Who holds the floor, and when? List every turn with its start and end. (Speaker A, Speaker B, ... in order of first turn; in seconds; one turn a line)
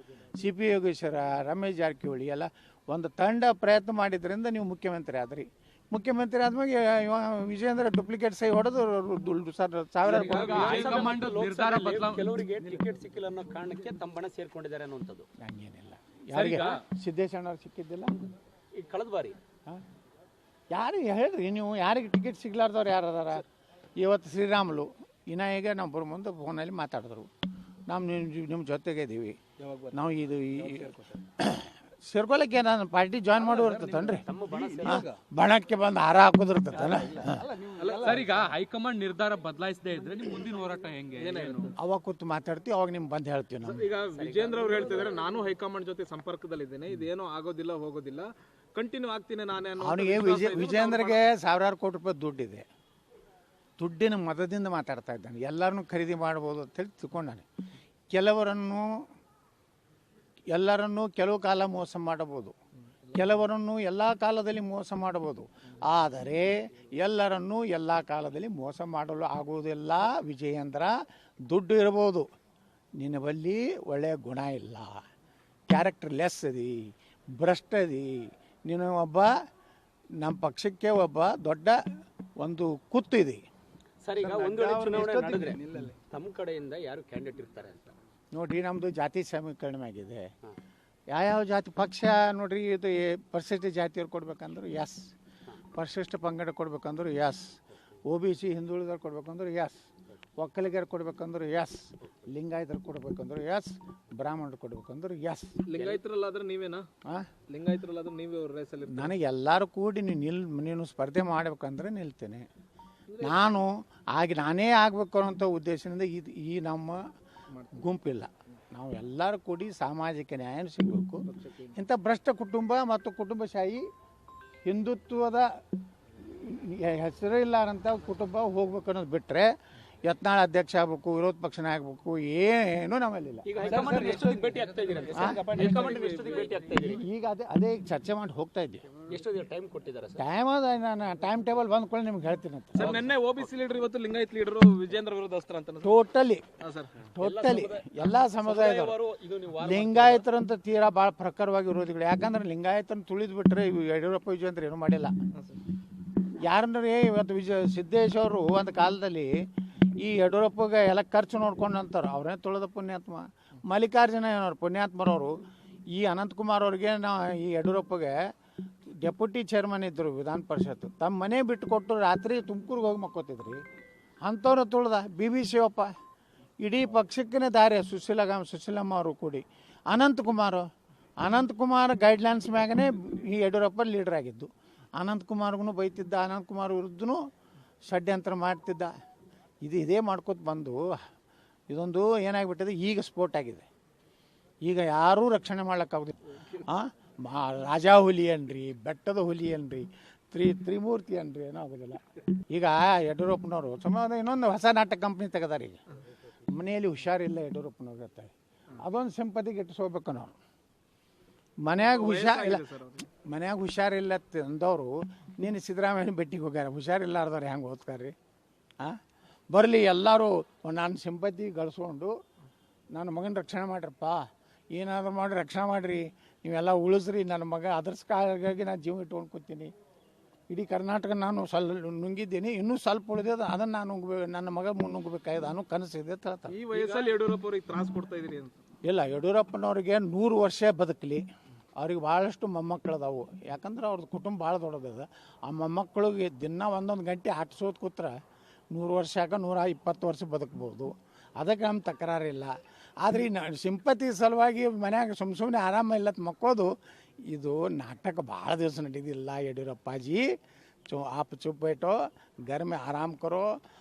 Speaker A: 0.3-11.1
Speaker B: 10.0-12.6
Speaker C: 10.0-15.3
Speaker A: 15.4-18.3
Speaker B: 16.3-16.8
Speaker C: 18.7-19.4
Speaker A: 20.7-23.4
Speaker A: 24.0-27.3
Speaker A: 27.9-29.4
Speaker D: 29.6-29.9
Speaker A: 29.9-34.3
Speaker D: 33.6-35.1
Speaker C: 33.6-35.1
Speaker A: 34.8-37.5
Speaker C: 36.8-38.3
Speaker D: 37.8-38.3
Speaker B: 38.0-41.7
Speaker D: 41.2-41.7
Speaker A: 41.8-43.9
Speaker D: 43.6-51.2
Speaker C: 44.1-45.2
Speaker A: 49.8-52.6
Speaker A: 53.8-57.5
Speaker A: 58.1-58.9
Speaker A: 60.5-62.5
Speaker A: 63.1-70.9
Speaker A: 71.5-72.3
Speaker A: 73.0-75.0
Speaker A: 75.7-79.3
Speaker A: 80.2-81.8
Speaker A: 82.4-83.4
Speaker C: 84.0-87.9
Speaker A: 84.8-85.9
Speaker A: 88.3-90.3
Speaker A: 91.1-95.1
Speaker A: 95.7-99.8
Speaker A: 100.4-105.6
Speaker D: 105.7-106.9
Speaker C: 105.7-106.0
Speaker D: 107.5-109.1
Speaker A: 108.9-112.5
Speaker D: 113.1-113.4
Speaker A: 113.2-117.0
Speaker A: 117.8-123.8
Speaker D: 121.3-121.7
Speaker A: 124.7-125.5
Speaker A: 126.2-129.5
Speaker A: 130.0-133.5
Speaker C: 133.4-137.1
Speaker D: 133.6-136.6
Speaker A: 135.1-135.7
Speaker A: 136.8-138.9
Speaker C: 139.1-140.2
Speaker A: 140.2-143.0
Speaker C: 142.8-143.1
Speaker D: 142.8-145.9
Speaker A: 145.8-146.4
Speaker D: 146.6-146.9
Speaker A: 147.0-149.0
Speaker C: 147.2-150.3
Speaker A: 149.6-155.1
Speaker D: 155.3-155.6
Speaker A: 156.4-159.3
Speaker A: 160.0-165.3
Speaker A: 165.9-168.2
Speaker A: 169.0-173.6
Speaker A: 174.2-175.9
Speaker A: 176.6-180.7
Speaker A: 181.2-187.2
Speaker A: 187.9-188.9
Speaker A: 189.6-190.8
Speaker A: 191.7-193.7
Speaker A: 194.7-205.8
Speaker D: 196.4-196.6
Speaker A: 206.5-210.4
Speaker A: 211.6-218.1
Speaker D: 211.8-213.1
Speaker A: 219.5-222.1
Speaker A: 222.9-229.7
Speaker A: 230.5-236.6
Speaker D: 236.5-238.5
Speaker A: 238.8-241.2
Speaker A: 241.8-248.2
Speaker A: 248.7-256.7
Speaker A: 257.3-260.2
Speaker A: 260.9-263.5